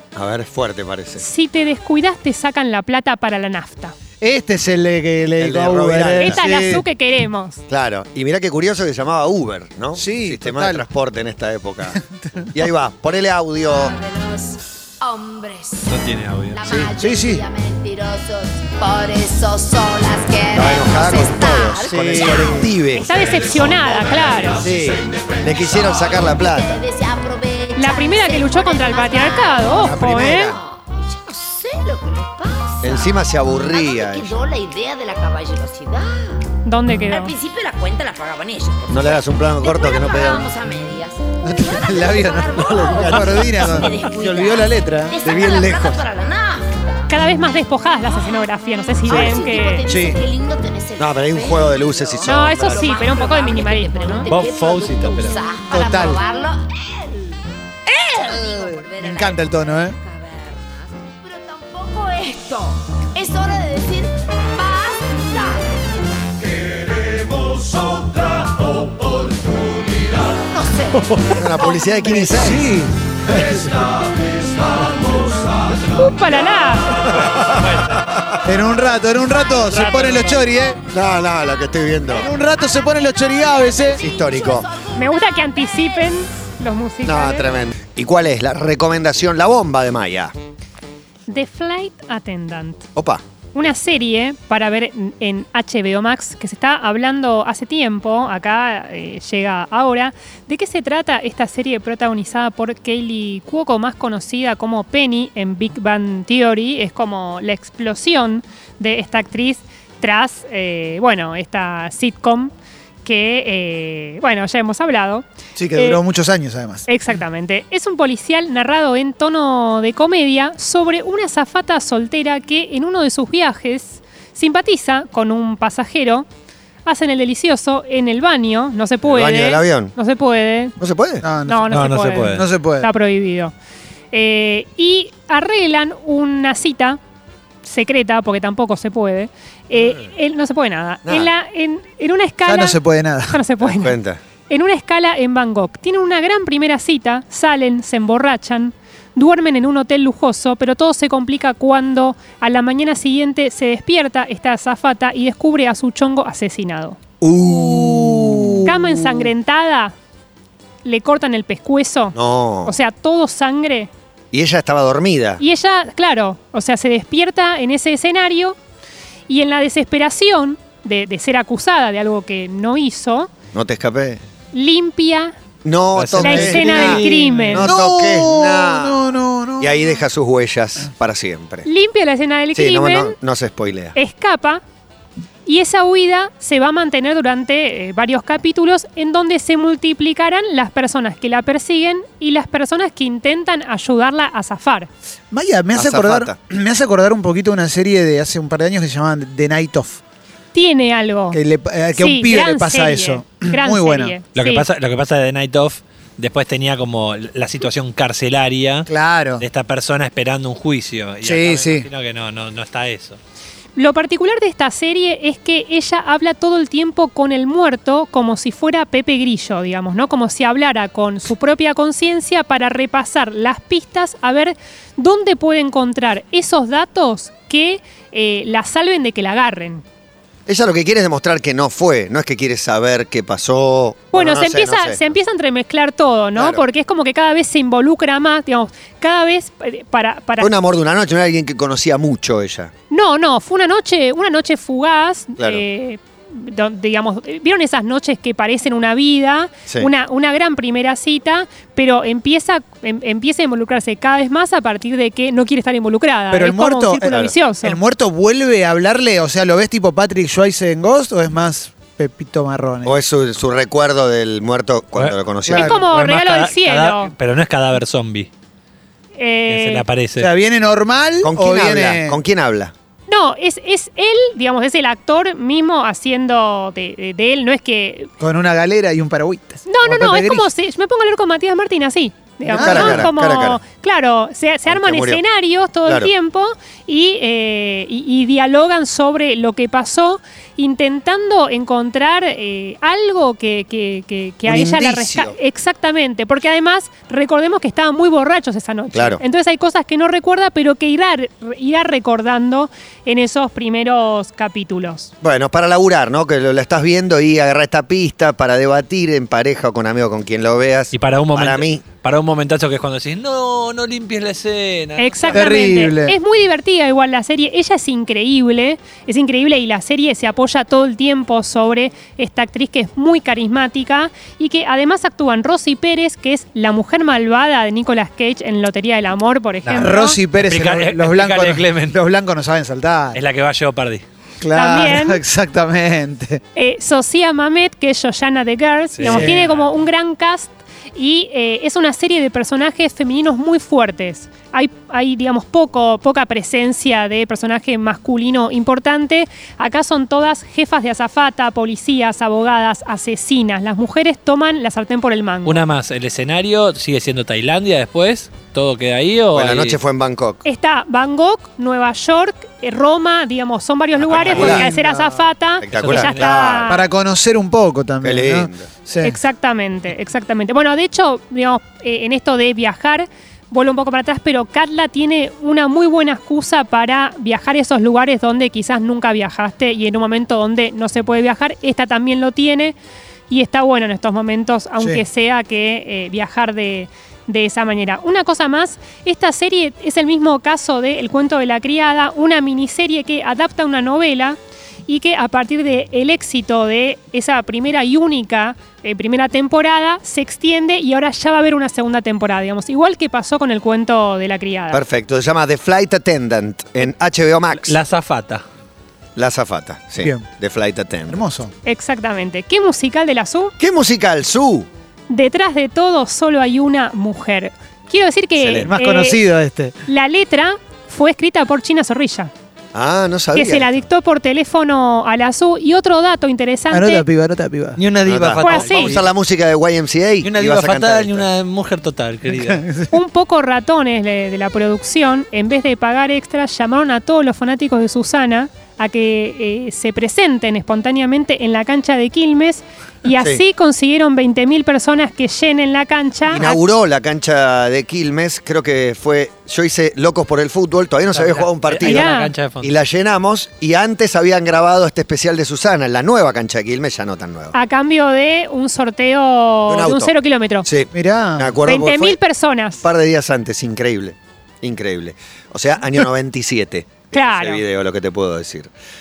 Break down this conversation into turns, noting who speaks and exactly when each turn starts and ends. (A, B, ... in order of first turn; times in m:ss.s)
0:00.1-0:01.2 A
0:01.2-0:04.0 B
0:04.2-0:06.8 C
0:05.4-0:06.4 A
0:06.2-0:07.6 B
0:07.7-0:12.0 A
0:09.9-0:10.9 C
0:11.9-0:12.6 C
0:12.5-0:14.0 A
0:13.9-0:16.0 D
0:15.9-0:16.8 E
0:16.5-0:24.8 D
0:16.9-0:17.4 C
0:20.5-0:26.8 A
0:21.9-0:22.7 C
0:22.9-0:24.6 B
0:25.9-0:36.4 D
0:27.8-0:30.6 B
0:29.7-0:30.6 A
0:32.8-0:34.4 A
0:36.6-0:37.4 B
0:37.1-0:47.1 D
0:38.9-0:40.5 A
0:41.4-0:45.9 C
0:42.6-0:44.6 A
0:45.2-0:46.0 A
0:47.1-0:49.9 B
0:48.0-1:05.7 D
0:49.9-0:50.2 C
0:51.0-0:53.2 A
0:52.2-0:54.3 B
0:54.3-0:56.2 C
0:54.3-0:55.3 E
0:58.2-1:00.0 C
1:07.4-1:08.1 D
1:09.2-1:12.4 D
1:11.0-1:13.8 C
1:11.3-1:12.7 A
1:15.9-1:17.1 B
1:18.4-1:20.8 C
1:19.7-1:20.4 A
1:20.9-1:22.3 A
1:22.1-1:24.0 C
1:23.5-1:26.2 D
1:24.0-1:24.7 A
1:24.9-1:27.5 B
1:27.0-1:30.3 A
1:31.3-1:32.9 B
1:33.0-1:33.2 A
1:33.5-1:52.5 B
1:53.0-1:56.0 B
1:55.6-1:56.9 C
1:56.9-2:06.3 B
2:06.9-2:10.8 B
2:09.0-2:09.9 A
2:10.8-2:11.2 A
2:11.2-2:12.9 C
2:11.4-2:13.5 B
2:11.7-2:12.5 E
2:14.1-2:17.0 B
2:17.6-2:24.0 B
2:22.4-2:23.4 C
2:23.6-2:24.2 A
2:24.5-2:37.0 B
2:37.2-2:38.7 A
2:37.5-2:38.6 C
2:38.6-2:39.9 B
2:40.8-2:43.9 B
2:42.1-2:42.7 A
2:44.3-2:45.4 A
2:45.4-2:48.6 B
2:49.3-2:53.3 B
2:53.5-2:54.2 A
2:54.5-2:55.3 B
2:55.6-2:59.0 A
2:55.9-2:56.8 E
2:56.2-2:57.7 B
2:56.4-3:00.0 C
2:59.6-3:01.7 A
3:01.6-3:03.2 B
3:02.5-3:04.0 A
3:03.9-3:04.6 B
3:05.4-3:14.9 B
3:15.3-3:20.0 C
3:15.7-3:16.4 A
3:20.5-3:21.4 B
3:21.3-3:24.1 C
3:21.9-3:24.6 B
3:24.4-3:33.2 E
3:28.9-3:29.4 C
3:31.2-3:31.9 C
3:33.8-3:49.8 B
3:50.5-3:55.0 A
3:54.1-4:00.5 B
3:56.4-3:56.6 A
4:00.4-4:02.7 A
4:02.9-4:17.8 B
4:05.4-4:05.6 A
4:16.3-4:23.0 C
4:22.8-4:25.8 A
4:25.5-4:25.8 C
4:25.5-4:27.1 B
4:25.9-4:28.3 E
4:29.2-4:29.8 B
4:29.5-4:30.3 E
4:30.2-4:32.2 C
4:31.2-4:32.7 A
4:33.1-4:38.1 B
4:38.2-4:40.5 C
4:39.7-5:05.1 B
4:42.5-4:43.6 A
4:42.5-4:43.1 C
4:44.7-4:45.2 A
4:45.9-4:46.1 A
4:54.4-4:55.4 A
4:58.9-4:59.2 A
5:05.2-5:11.8 A
5:10.9-5:15.8 E
5:15.0-5:30.2 B
5:15.3-5:16.2 C
5:29.7-5:33.2 C
5:30.4-5:32.0 E
5:33.1-5:34.0 E
5:34.4-5:36.4 C
5:34.5-5:35.2 B
5:36.5-5:55.6 B
5:39.0-5:39.6 E
5:39.0-5:39.5 C
5:55.4-5:59.8 E
5:59.4-6:00.4 A
6:00.4-6:06.8 B
6:04.0-6:04.7 A
6:04.1-6:04.6 E
6:04.3-6:05.2 C
6:05.6-6:06.7 A
6:05.7-6:06.6 E
6:06.7-6:09.2 C
6:08.0-6:08.7 A
6:09.0-6:22.8 B
6:23.3-6:44.8 B
6:44.7-6:47.8 A
6:47.6-6:48.4 E
6:49.2-6:51.2 A
6:50.0-6:50.3 C
6:51.1-6:51.5 C
6:51.6-6:53.5 B
6:53.6-6:54.7 A
6:55.1-6:59.3 B
6:58.4-6:58.7 A
6:58.6-6:59.8 C
6:59.9-7:02.3 B
7:02.7-7:03.8 A
7:03.3-7:07.0 B
7:06.7-7:07.8 C
7:07.8-7:09.1 E
7:08.0-7:11.3 A
7:08.4-7:09.0 B
7:10.2-7:12.6 E
7:12.3-7:12.9 C
7:12.9-7:26.6 B
7:23.2-7:23.4 A
7:26.3-7:32.1 A
7:31.1-7:32.7 E
7:31.8-7:32.3 B
7:32.6-7:37.5 A
7:37.5-7:40.7 B
7:39.7-7:40.1 A
7:40.6-7:42.2 A
7:40.9-7:41.6 C
7:41.6-7:42.8 B
7:42.8-7:48.7 A
7:47.1-7:47.6 B